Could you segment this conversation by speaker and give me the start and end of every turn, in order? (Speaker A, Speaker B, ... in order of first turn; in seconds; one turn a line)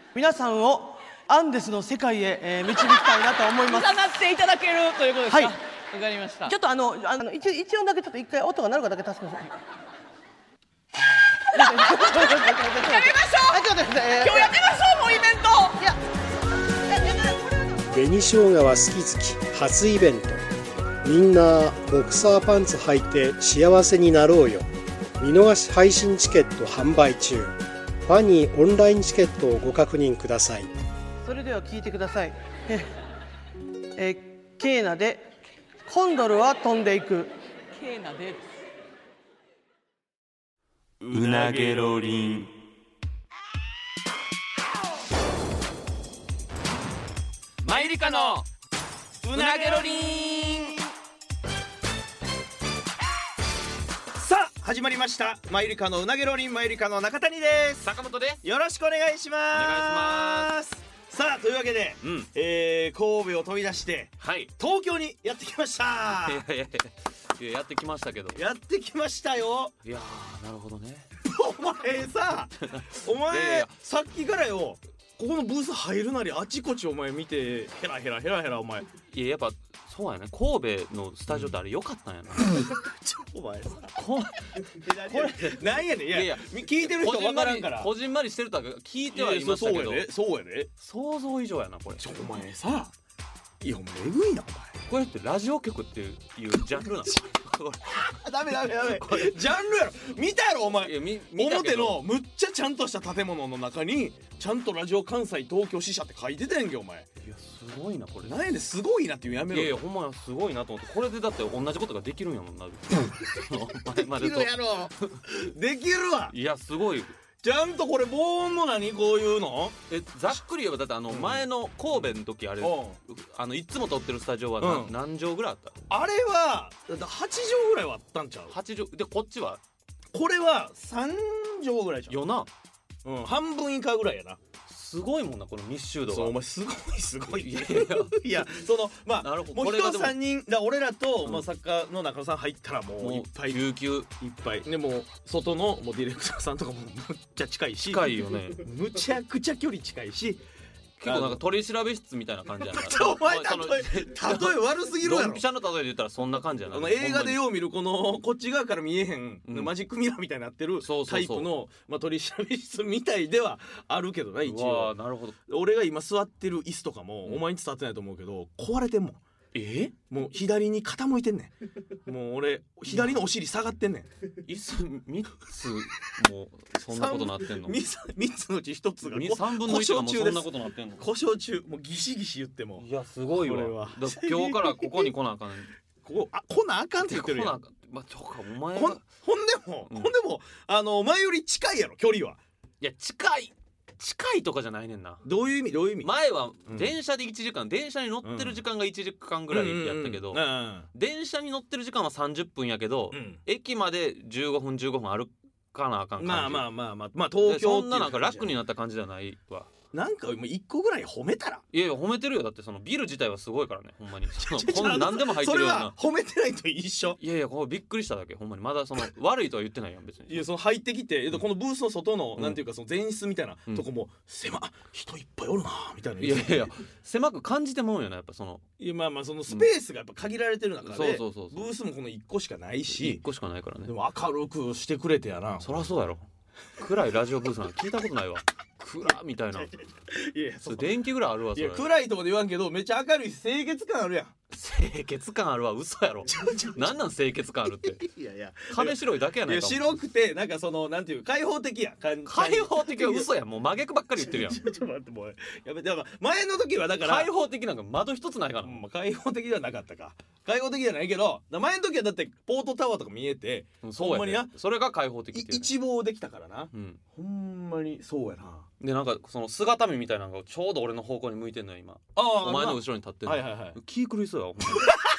Speaker A: 0.1-4.0
Speaker B: 3.6-6.5
Speaker A: 5.3-5.5
Speaker A: 6.5-9.6
Speaker B: 11.5-13.7
Speaker A: 11.5-14.5
Speaker B: 14.2-15.8
Speaker C: 17.9-20.4
Speaker C: 21.0-24.7
Speaker C: 25.2-30.7
Speaker A: 31.2-32.9
Speaker A: 34.0-35.3
Speaker A: 35.8-37.3
Speaker B: 37.7-38.5
Speaker D: 41.0-42.5
Speaker E: 41.0-41.9
Speaker E: 47.6-48.4
Speaker D: 47.6-48.5
Speaker E: 49.2-50.8
Speaker D: 49.3-50.8
Speaker E: 54.1-57.9
Speaker D: 57.8-58.4
Speaker E: 58.4-66.4
Speaker D: 59.5-60.5
Speaker D: 64.2-64.5
Speaker D: 66.1-68.4
Speaker E: 68.3-69.8
Speaker D: 69.8-71.1
Speaker E: 71.2-78.9
Speaker D: 72.6-73.7
Speaker D: 79.1-82.7
Speaker E: 82.4-84.0
Speaker D: 84.0-90.1
Speaker E: 84.7-87.9
Speaker E: 89.1-90.7
Speaker D: 90.8-92.1
Speaker E: 92.0-92.9
Speaker E: 93.6-94.8
Speaker D: 94.9-99.5
Speaker E: 97.9-107.1
Speaker D: 100.8-102.0
Speaker D: 107.2-108.5
Speaker E: 108.2-109.8
Speaker D: 109.5-115.3
Speaker E: 113.9-116.3
Speaker D: 116.3-117.1
Speaker E: 117.4-119.8
Speaker D: 119.9-125.8
Speaker E: 121.1-121.4
Speaker E: 122.6-123.0
Speaker E: 124.6-124.9
Speaker E: 125.9-128.5
Speaker D: 128.5-129.6
Speaker E: 130.1-132.2
Speaker D: 132.1-132.5
Speaker E: 133.0-134.4
Speaker D: 134.7-136.3
Speaker E: 136.1-150.4
Speaker D: 137.3-138.2
Speaker D: 139.2-140.2
Speaker D: 143.0-144.1
Speaker D: 147.8-148.7
Speaker D: 151.0-157.4
Speaker E: 151.0-151.4
Speaker E: 152.6-155.4
Speaker E: 156.7-164.9
Speaker D: 159.5-159.7
Speaker D: 160.8-161.5
Speaker D: 164.4-165.4
Speaker E: 165.5-169.2
Speaker D: 169.5-169.9
Speaker E: 170.1-171.5
Speaker E: 172.0-174.1
Speaker D: 172.9-173.2
Speaker D: 174.4-177.8
Speaker E: 176.9-182.8
Speaker D: 179.0-181.1
Speaker D: 182.8-185.7
Speaker E: 183.4-185.1
Speaker E: 186.0-187.6
Speaker D: 187.0-189.1
Speaker E: 188.7-192.4
Speaker D: 192.8-195.2
Speaker E: 195.2-196.1
Speaker D: 196.0-206.7
Speaker E: 196.7-196.9
Speaker E: 198.2-198.6
Speaker E: 199.5-200.9
Speaker E: 203.1-203.4
Speaker E: 206.2-208.5
Speaker D: 207.4-209.7
Speaker E: 209.9-211.6
Speaker D: 211.7-215.9
Speaker E: 214.3-217.2
Speaker D: 217.2-220.5
Speaker E: 220.3-226.7
Speaker D: 222.3-222.6
Speaker D: 226.2-228.6
Speaker E: 228.8-233.2
Speaker D: 230.8-231.7
Speaker D: 232.9-233.9
Speaker E: 233.8-235.9
Speaker D: 235.6-236.3
Speaker D: 236.8-239.7
Speaker E: 239.6-241.0
Speaker D: 240.7-241.9
Speaker E: 241.5-244.3
Speaker D: 244.5-248.0
Speaker E: 246.3-246.9
Speaker E: 247.8-253.3
Speaker D: 248.7-249.9
Speaker D: 252.2-254.6
Speaker E: 254.2-257.3
Speaker D: 257.0-258.8
Speaker E: 258.6-264.5
Speaker D: 263.8-265.7
Speaker E: 265.3-268.6
Speaker D: 266.7-267.0
Speaker D: 268.8-275.0
Speaker E: 272.1-273.8